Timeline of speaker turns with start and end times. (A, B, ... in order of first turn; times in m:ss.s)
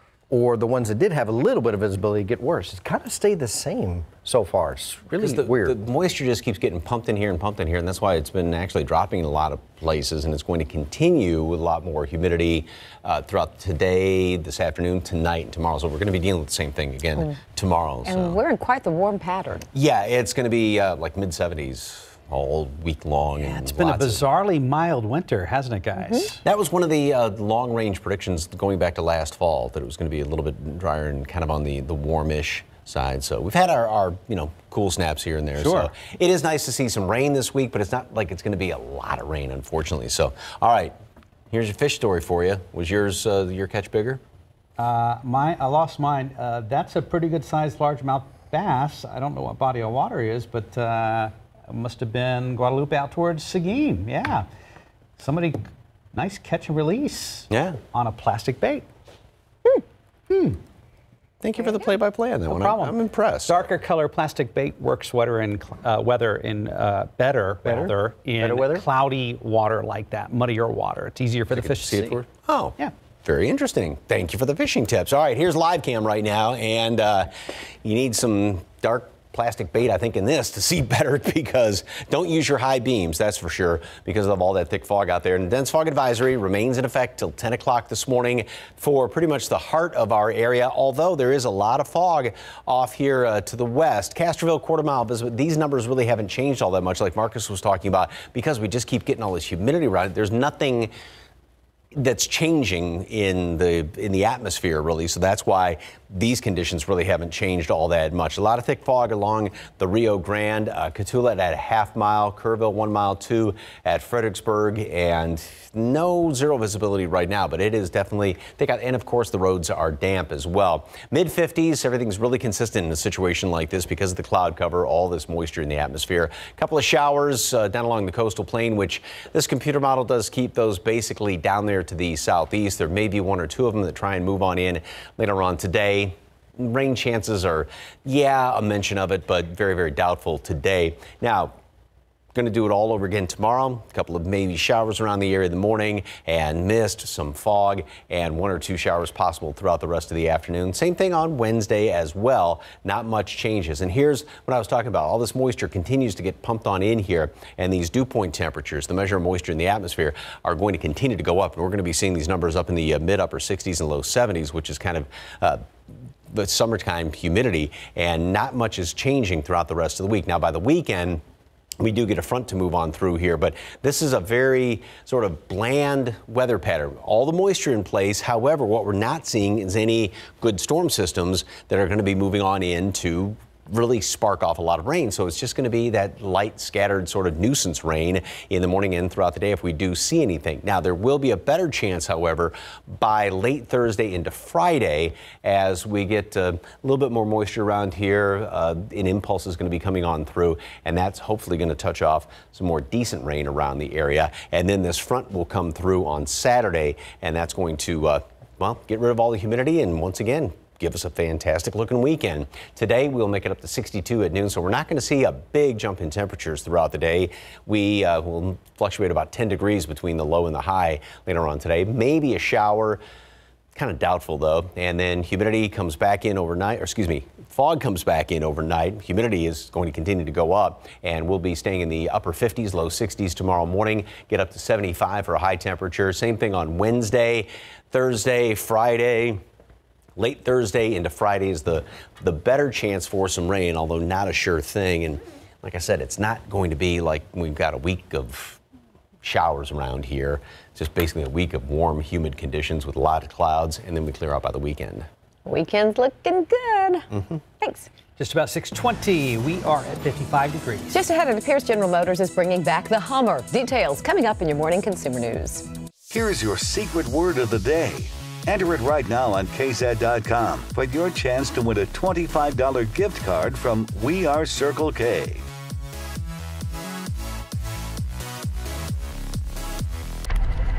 0:00.3-0:05.8 A
0:05.1-0:18.4 B
0:18.0-0:19.6 C
0:19.7-0:24.2 B
0:23.4-0:26.4 D
0:26.0-0:26.2 C
0:26.4-0:40.9 B
0:35.6-0:35.9 D
0:41.5-0:44.2 B
0:44.8-0:54.4 D
0:55.2-0:58.9 D
0:57.5-0:57.8 B
1:00.3-1:00.6 D
1:01.4-1:03.7 B
1:02.5-1:02.9 D
1:03.5-1:12.2 D
1:07.6-1:08.8 A
1:11.5-1:17.3 B
1:17.8-1:40.9 B
1:41.9-2:21.5 B
2:22.3-2:45.6 B
2:46.3-2:51.2 B
2:51.8-3:43.0 B
3:43.8-3:59.4 B
4:00.2-4:08.6 B
4:09.2-4:15.1 B
4:15.4-4:17.0 C
4:17.1-4:17.4 B
4:17.6-4:17.9 C
4:18.2-4:20.9 D
4:20.9-4:25.6 C
4:26.1-4:35.4 E